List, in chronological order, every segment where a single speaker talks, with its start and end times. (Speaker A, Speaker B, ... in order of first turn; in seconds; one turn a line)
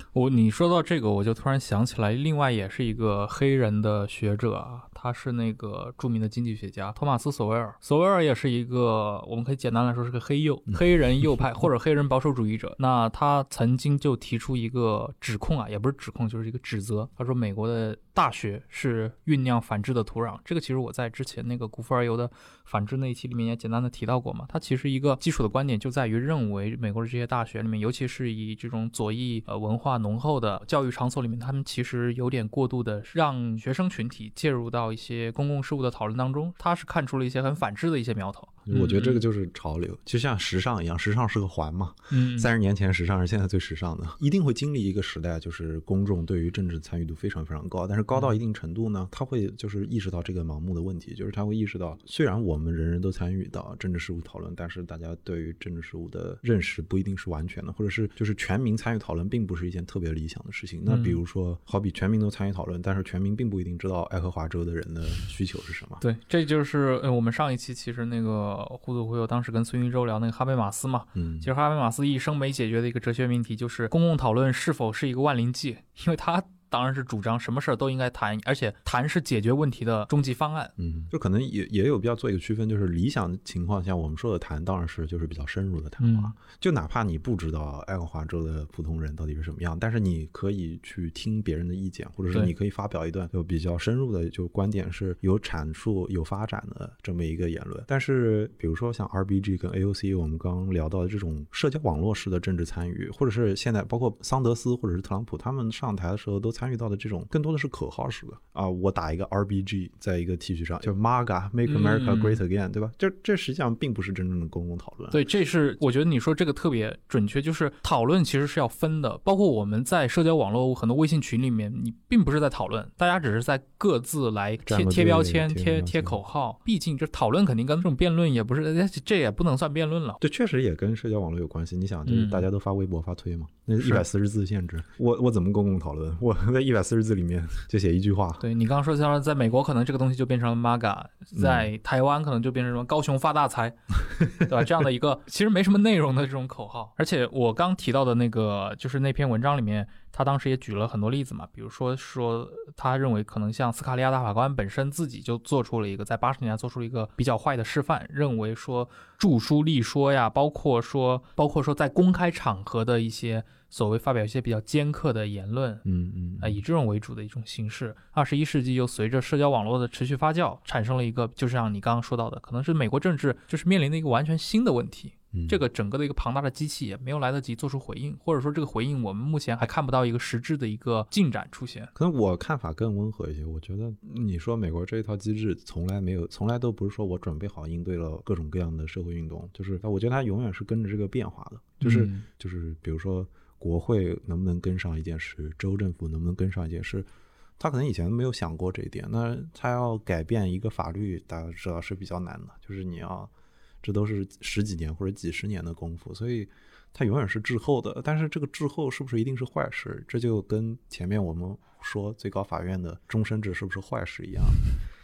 Speaker A: 0.1-39.2
Speaker B: 38.7-66.0
Speaker A: 42.1-42.5
Speaker A: 60.9-61.2
Speaker A: 66.0-80.7
Speaker B: 71.2-71.5
Speaker B: 80.8-115.2
Speaker A: 86.0-86.3
Speaker A: 111.7-112.4
Speaker A: 115.1-130.2
Speaker B: 124.7-126.2
Speaker B: 130.2-138.4
Speaker A: 132.1-132.5
Speaker A: 138.4-165.8
Speaker B: 141.3-141.7
Speaker B: 165.8-166.6
Speaker A: 166.4-181.9
Speaker B: 175.3-175.6
Speaker B: 181.9-203.3
Speaker A: 191.8-192.3
Speaker B: 203.8-214.7